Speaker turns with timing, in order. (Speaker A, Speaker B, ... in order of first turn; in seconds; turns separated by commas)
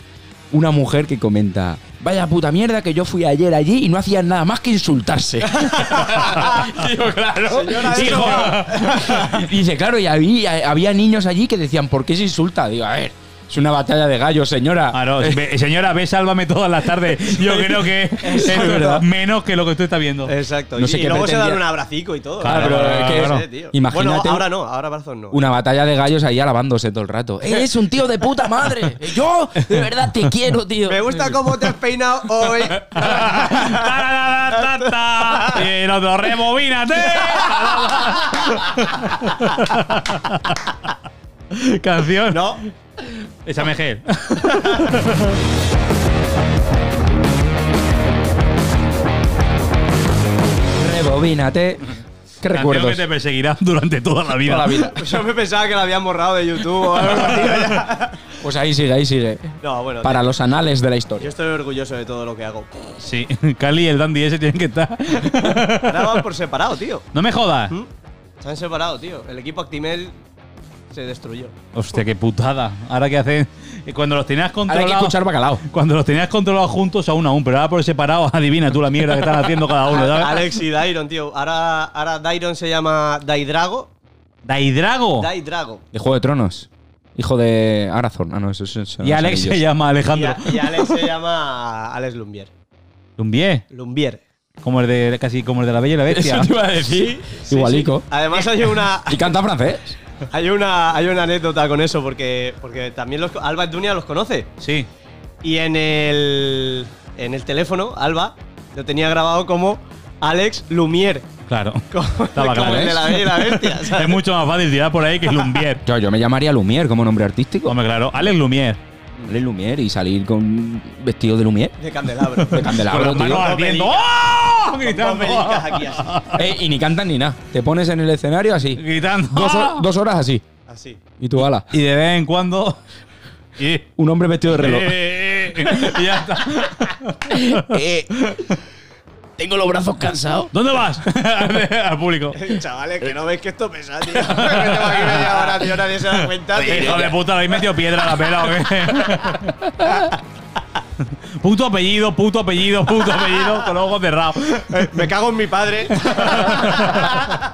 Speaker A: 0.5-15.4, Speaker B: 6.1-6.5, Speaker C: 6.2-6.7, Speaker B: 7.5-9.3, Speaker C: 7.7-9.4, Speaker C: 14.9-20.3, Speaker B: 18.2-19.0, Speaker A: 18.2-19.1, Speaker B: 20.3-25.5, Speaker A: 20.8-21.6, Speaker C: 22.4-23.4, Speaker A: 22.4-24.5, Speaker A: 25.3-31.2, Speaker B: 30.9-33.9, Speaker C: 32.9-40.6, Speaker B: 34.6-35.6, Speaker C: 41.5-42.7, Speaker B: 42.3-42.6, Speaker C: 43.4-45.4, Speaker B: 44.5-44.9, Speaker A: 50.8-51.9, Speaker A: 52.4-53.0, Speaker C: 52.5-54.9, Speaker A: 54.4-55.0, Speaker B: 55.0-58.2, Speaker C: 57.0-57.6, Speaker A: 58.4-61.3, Speaker B: 59.6-60.3, Speaker B: 61.2-62.9, Speaker C: 63.0-66.2, Speaker B: 65.7-67.1, Speaker C: 67.1-67.7, Speaker B: 68.4-70.1, Speaker B: 70.9-71.5, Speaker C: 71.7-80.5, Speaker A: 74.7-75.7, Speaker B: 79.9-83.9, Speaker C: 84.5-85.3, Speaker B: 85.2-85.8, Speaker A: 85.9-89.6, Speaker C: 89.0-91.0, Speaker B: 90.1-92.5, Speaker C: 93.2-93.7, Speaker B: 93.7-94.2, Speaker C: 94.6-96.5, Speaker A: 96.1-100.0, Speaker B: 96.9-99.3, Speaker B: 100.3-104.5, Speaker C: 104.6-104.9, Speaker B: 105.4-111.3, Speaker C: 111.5-115.8, Speaker B: 111.9-114.2, Speaker A: 112.6-113.0, Speaker A: 115.8-117.8, Speaker C: 117.7-118.8, Speaker A: 119.3-121.8, Speaker B: 121.8-124.1, Speaker A: 122.5-123.5, Speaker C: 122.5-126.4, Speaker B: 124.7-126.3, Speaker A: 126.3-130.4, Speaker C: 128.8-129.8, Speaker B: 130.7-131.0, Speaker A: 131.2-131.7, Speaker C: 131.4-132.8, Speaker C: 133.6-133.9, Speaker A: 134.0-136.0, Speaker C: 134.5-138.6, Speaker A: 137.3-138.2, Speaker A: 139.4-140.5, Speaker C: 140.5-142.5, Speaker B: 142.3-147.2, Speaker C: 144.2-145.6, Speaker C: 146.6-150.1, Speaker A: 146.6-147.2, Speaker C: 151.4-155.0, Speaker B: 154.7-157.1, Speaker C: 156.0-157.3